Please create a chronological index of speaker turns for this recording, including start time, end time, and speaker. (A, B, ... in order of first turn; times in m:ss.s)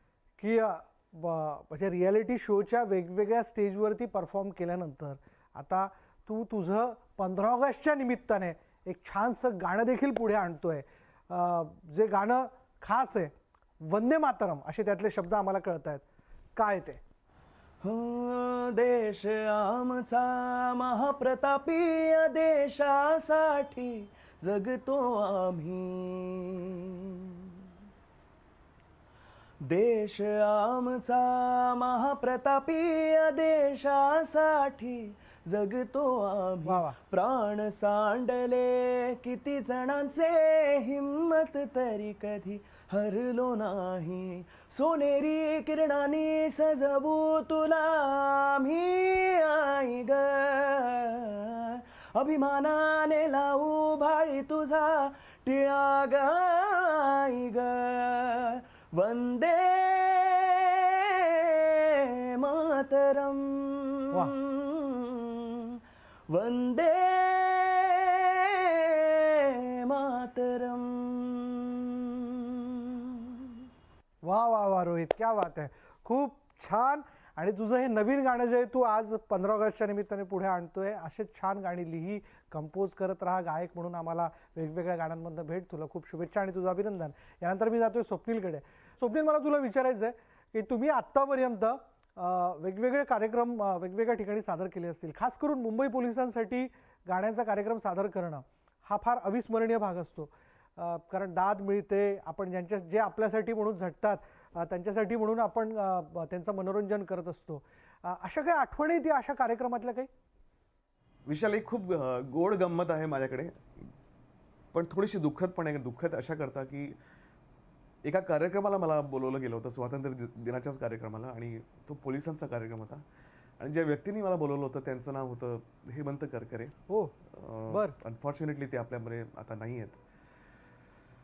0:00.4-0:13.3 A
0:13.9-0:16.0 A
0:16.6-0:17.0 A
0:17.8-0:27.6 B
0:29.7-1:01.6 B
0:36.6-0:36.9 A
1:02.4-1:05.8 B
1:06.3-1:13.5 B
1:14.2-1:50.1 A
1:51.3-1:53.9 C
1:54.7-1:57.0 C
1:58.0-2:03.0 C
2:03.6-2:06.7 C
2:06.9-2:07.1 A
2:07.3-2:10.0 C
2:07.7-2:08.0 A